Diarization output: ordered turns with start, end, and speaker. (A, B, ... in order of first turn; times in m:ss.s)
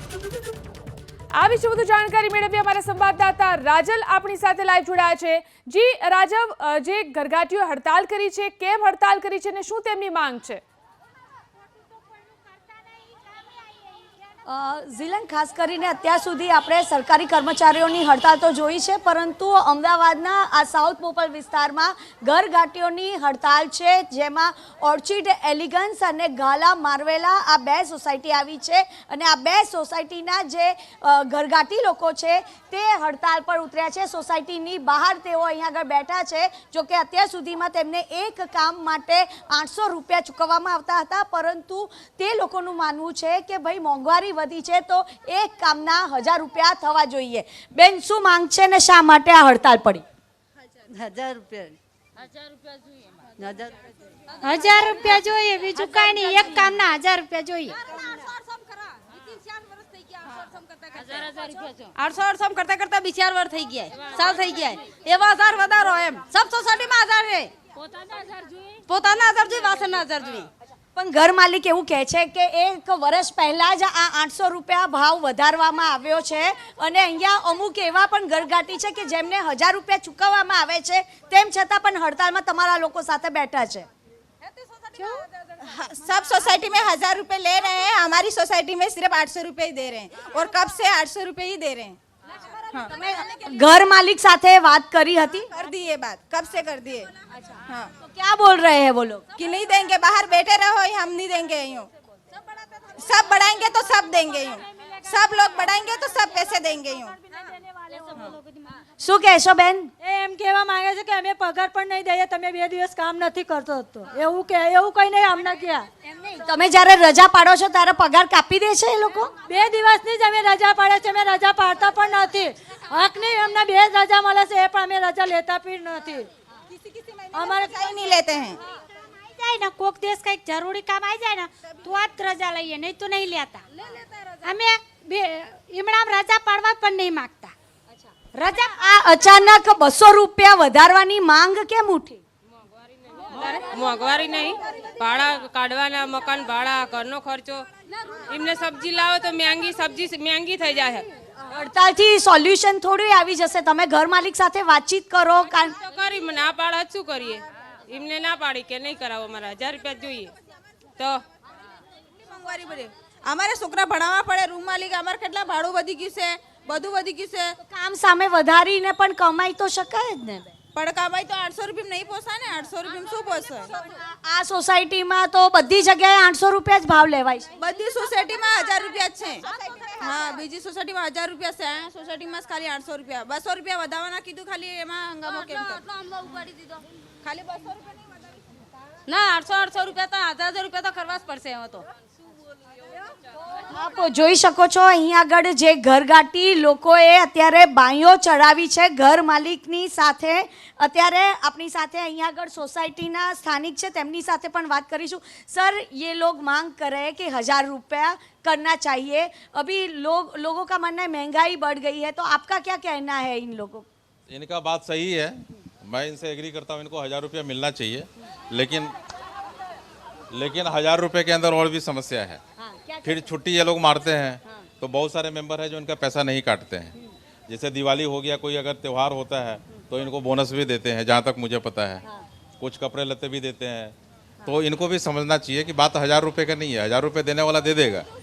0:01.4-0:10.6 A
0:14.5-0:50.0 B
0:54.4-0:57.8 C
1:02.0-1:07.5 D
1:08.9-1:10.5 D
1:11.0-1:23.9 B
1:25.0-1:32.0 E
1:32.9-1:35.5 B
1:35.5-1:37.1 E
1:37.4-1:39.2 B
1:39.4-1:41.9 E
1:43.0-1:47.2 E
1:49.0-1:49.9 B
1:50.0-1:55.9 F
1:56.4-1:59.3 B
1:59.5-2:06.3 F
2:07.3-2:08.1 F
2:07.3-2:08.6 E
2:09.4-2:13.6 C
2:14.4-2:17.5 C
2:18.3-2:18.8 C
2:18.7-2:22.2 B
2:23.3-2:27.7 G
2:28.3-2:31.1 G
2:31.5-2:35.8 B
2:35.8-2:40.3 G
2:42.2-2:47.6 E
2:47.7-2:50.5 B
2:50.8-2:53.7 E
2:54.2-2:57.5 B
2:57.6-3:05.8 E
3:07.2-3:08.2 E
3:09.1-3:11.8 D
3:13.7-3:33.9 B
3:34.3-3:39.0 H
3:40.3-3:42.4 H
3:42.6-3:43.3 B
3:43.0-3:47.0 H
3:47.5-3:52.0 H
3:52.6-3:58.1 H